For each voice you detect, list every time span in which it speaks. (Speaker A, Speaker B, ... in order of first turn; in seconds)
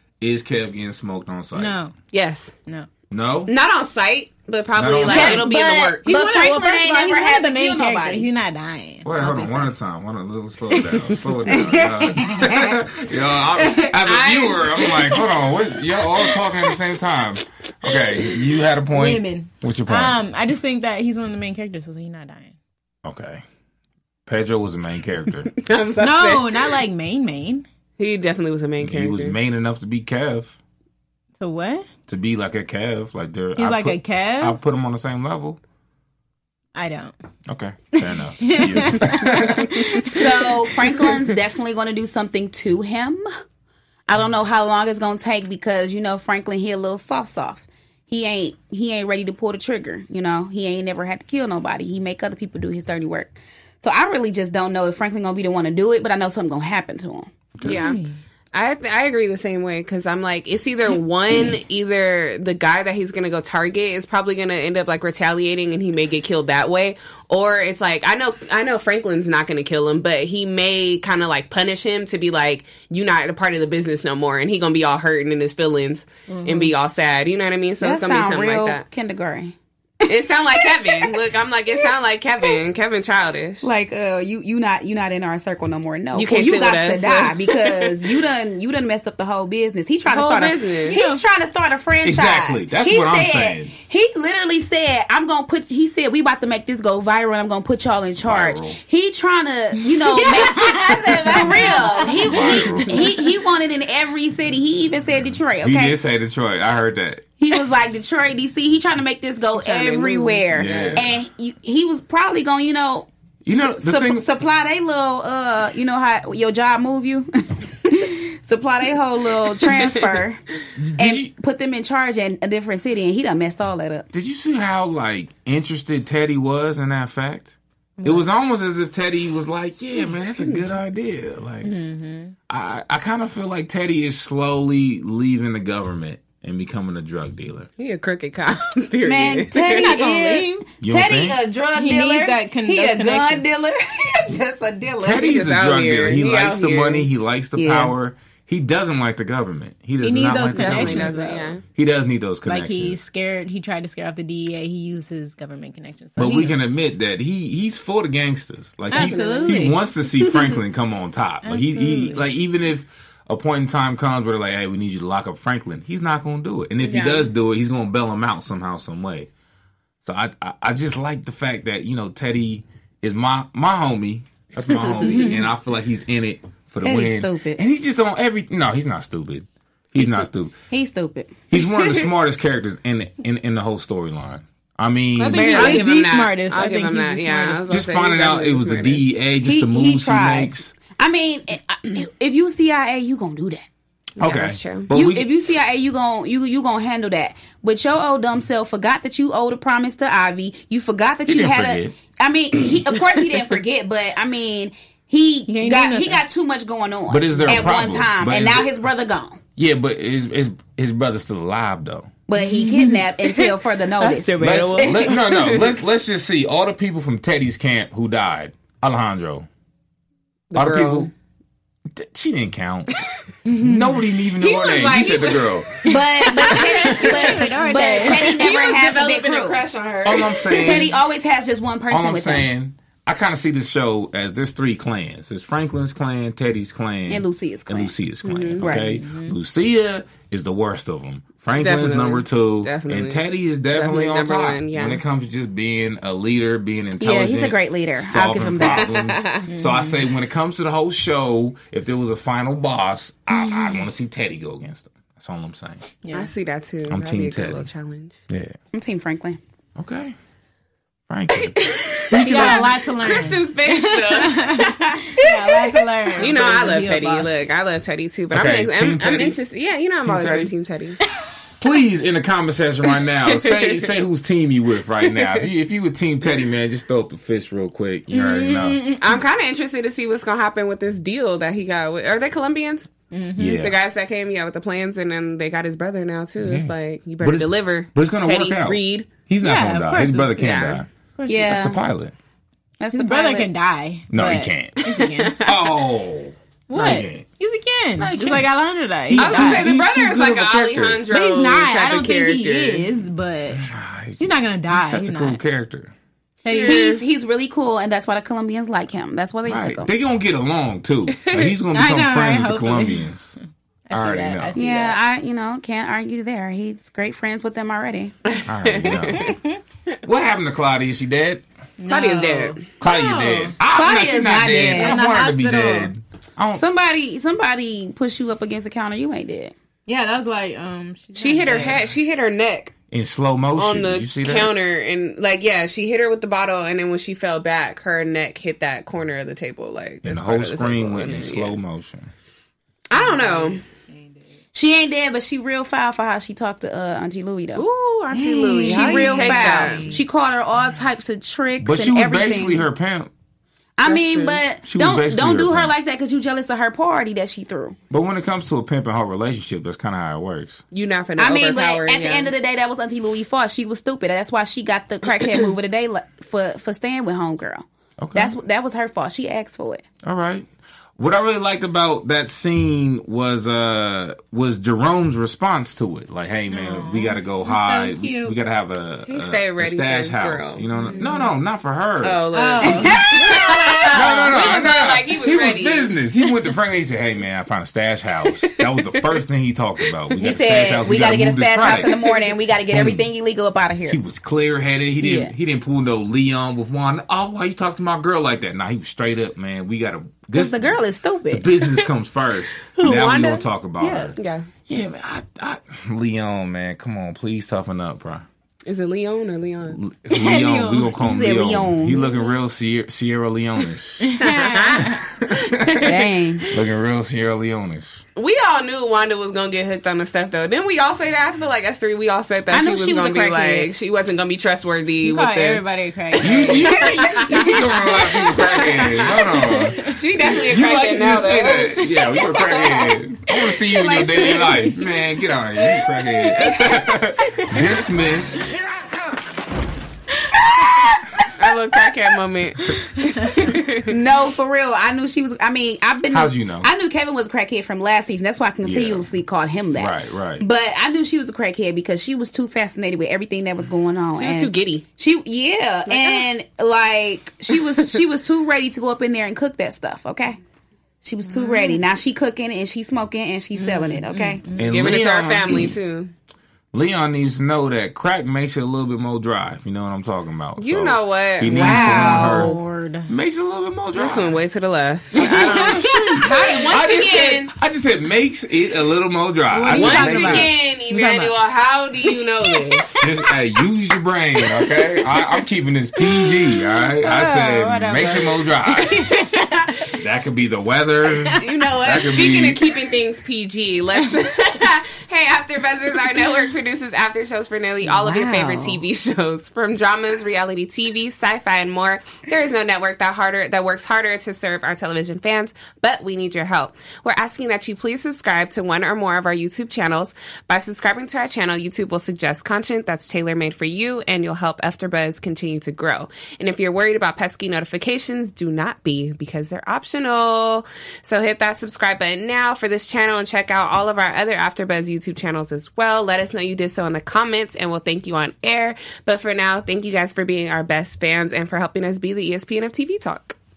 Speaker A: 0.2-1.7, 3.1-3.5, 4.7-5.5, 9.0-20.2, 23.0-23.4, 24.2-25.5, 28.8-30.6, 32.1-35.6, 37.5-40.0, 92.0-93.7, 98.2-98.8, 102.0-103.1, 105.6-107.3, 110.5-111.1, 113.4-114.2, 120.8-121.3, 124.1-131.7, 132.5-137.7, 140.8-141.4, 145.0-151.2, 151.7-153.0, 156.2-169.3, 170.0-180.5, 181.5-185.9, 187.7-190.7, 194.2-195.3, 201.2-202.0, 207.1-208.7, 209.6-212.1, 214.4-219.5, 220.5-221.1, 221.9-225.9, 230.0-230.9, 231.9-255.8, 256.9-257.7, 258.3-258.5, 259.8-260.1, 261.1-262.7, 268.3-269.4, 270.0-270.5, 271.6-278.9, 283.4-283.8, 286.4-290.9, 291.4-292.1, 294.1-294.9, 295.4-297.2, 298.0-298.4, 299.1-301.0, 303.5-305.9, 309.4-313.4, 313.9-314.6, 318.4-319.4, 320.0-321.4, 322.8-326.6, 332.9-334.5, 340.0-342.1, 351.6-353.1, 354.6-355.7, 357.9-360.6, 368.0-368.4, 370.0-382.9, 383.9-391.9, 392.7-393.1, 393.9-408.2, 409.7-415.9, 416.5-418.0, 426.2-438.5, 446.1-446.7, 448.6-449.1, 449.7-450.4, 464.6-465.7, 466.7-474.4, 475.1-480.5, 483.0-489.1, 489.9-492.6
Speaker B: 1.5-1.9, 6.0-9.7, 18.9-22.5, 26.0-27.6, 31.4-31.9, 33.6-34.6, 36.7-37.1, 38.4-40.3, 57.6-58.1, 76.3-76.7, 90.9-91.2, 99.9-103.0, 109.6-110.5, 128.0-128.3, 131.6-132.3, 139.7-140.5, 141.7-143.5, 150.0-151.6, 152.4-156.6, 158.9-159.7, 161.4-162.3, 175.0-175.4, 185.2-187.8, 205.5-206.2, 212.3-213.1, 223.4-224.0, 226.5-228.4, 238.8-239.3, 249.5-250.0, 253.3-253.8, 256.0-256.3, 262.2-267.3, 278.1-279.1, 283.1-283.6, 289.4-290.3, 291.2-291.6, 292.9-295.4, 296.7-299.7, 301.1-303.7, 304.2-305.4, 306.4-306.8, 311.7-313.1, 313.9-315.0, 319.1-319.6, 321.8-323.5, 324.8-325.9, 329.9-331.8, 343.0-344.2, 347.6-350.0, 376.5-378.4, 380.8-381.3, 382.3-384.5, 414.0-415.0, 425.0-427.2, 429.4-430.0, 433.8-434.7, 461.3-461.8, 463.6-465.0, 471.5-473.1, 475.1-476.7, 479.5-481.3, 487.0-489.9
Speaker C: 2.1-2.5, 3.5-6.1, 13.8-15.2, 25.5-26.7, 28.0-29.4, 57.6-58.0, 58.5-78.8, 80.1-83.7, 86.1-88.1, 90.1-91.0, 110.6-111.0, 130.3-130.6, 137.8-140.0, 145.2-147.1, 150.6-151.6, 158.9-160.5, 166.8-167.2, 174.7-175.0, 185.3-189.0, 194.2-194.9, 214.0-215.7, 220.5-221.1, 224.4-225.7, 226.4-230.9, 238.2-238.7, 241.5-245.0, 248.8-249.4, 256.1-258.1, 262.3-265.2, 266.2-271.0, 273.2-273.9, 279.0-282.9, 283.6-289.1, 290.3-290.8, 294.9-295.6, 299.1-302.9, 306.5-307.0, 311.2-311.5, 318.3-319.3, 321.9-322.6, 331.2-332.7, 333.6-341.6, 342.9-343.6, 348.1-349.9, 353.8-354.4, 360.7-362.3, 379.1-380.6, 382.0-385.9, 402.7-403.4, 404.1-404.5, 408.6-409.8, 414.2-414.9, 418.1-425.6, 426.2-427.6, 428.2-431.9, 441.4-443.9, 454.1-454.8, 455.9-456.2, 464.7-466.1, 470.6-472.4, 473.9-477.5, 479.7-483.1, 489.1-489.7, 491.4-533.4
Speaker D: 5.1-8.3, 11.5-12.8, 39.8-43.2, 44.1-57.3, 77.8-81.2, 83.6-106.0, 107.4-120.4, 121.0-124.1, 139.0-145.3, 147.6-147.9, 176.8-177.6, 180.0-181.4, 189.4-193.6, 194.9-209.4, 212.3-215.2, 225.8-229.6, 230.5-232.5, 237.1-237.9, 238.6-239.0, 247.0-249.0, 258.7-259.4, 262.1-262.6, 291.3-291.8, 292.8-293.5, 306.6-309.9, 314.5-318.1, 323.7-325.0, 326.5-329.5, 344.5-347.6, 348.6-352.6, 353.8-357.8, 361.2-369.8, 382.9-383.9, 390.2-394.0, 395.0-395.3, 400.3-401.5, 410.1-412.1, 415.8-416.4, 422.5-423.7, 433.9-434.5, 440.4-441.3, 443.9-460.4, 461.0-464.4, 471.6-472.5, 497.8-498.8